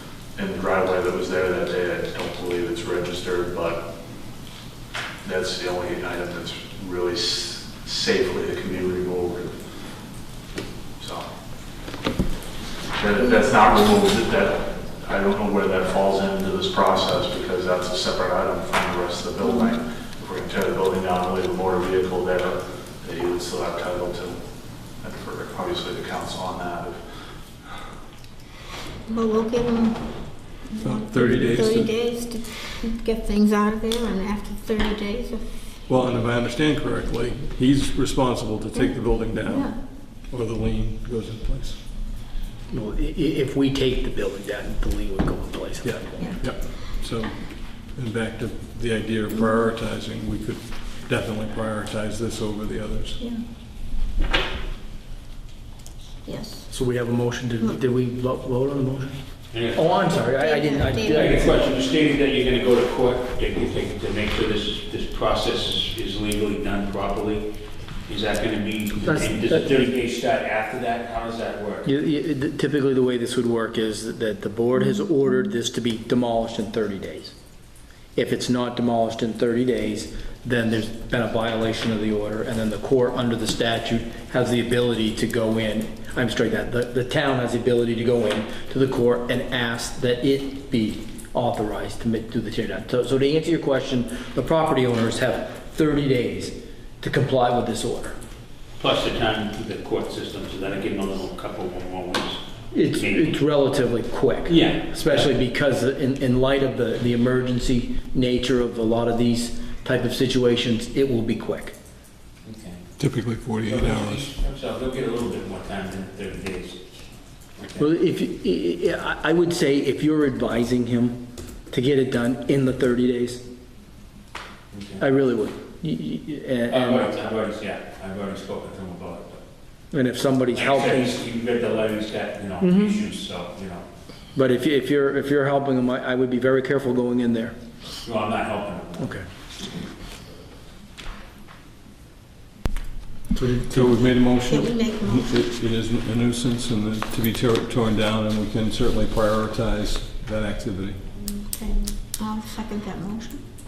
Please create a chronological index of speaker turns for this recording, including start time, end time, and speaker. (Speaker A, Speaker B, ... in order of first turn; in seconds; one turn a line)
Speaker A: 0.3-3.9
Speaker A: 5.2-9.6
Speaker A: 11.0-11.3
Speaker A: 12.9-24.4
Speaker B: 19.4-19.7
Speaker A: 25.0-27.0
Speaker B: 29.1-30.0
Speaker B: 30.6-35.5
Speaker C: 30.8-31.9
Speaker C: 35.9-41.8
Speaker B: 38.7-39.8
Speaker D: 42.7-46.4
Speaker C: 45.8-53.2
Speaker B: 46.2-46.5
Speaker B: 49.3-49.6
Speaker B: 56.2-56.7
Speaker D: 56.7-59.2
Speaker E: 59.5-60.2
Speaker D: 59.7-61.6
Speaker B: 60.4-61.6
Speaker E: 61.1-67.5
Speaker E: 68.1-71.9
Speaker D: 69.0-69.7
Speaker D: 71.8-77.3
Speaker D: 78.1-98.1
Speaker E: 98.8-103.4
Speaker D: 102.7-111.7
Speaker E: 104.5-105.3
Speaker E: 112.4-112.8
Speaker C: 113.0-114.3
Speaker E: 113.6-117.0
Speaker E: 117.6-117.9
Speaker D: 117.8-123.4
Speaker E: 124.7-125.0
Speaker D: 125.0-127.1
Speaker E: 126.7-129.4
Speaker D: 129.9-131.1
Speaker E: 130.5-133.8
Speaker D: 132.6-133.0
Speaker D: 134.3-137.5
Speaker E: 138.0-139.2
Speaker D: 139.0-139.2
Speaker D: 143.3-144.1
Speaker C: 143.7-151.0
Speaker B: 144.3-145.4
Speaker B: 151.6-153.4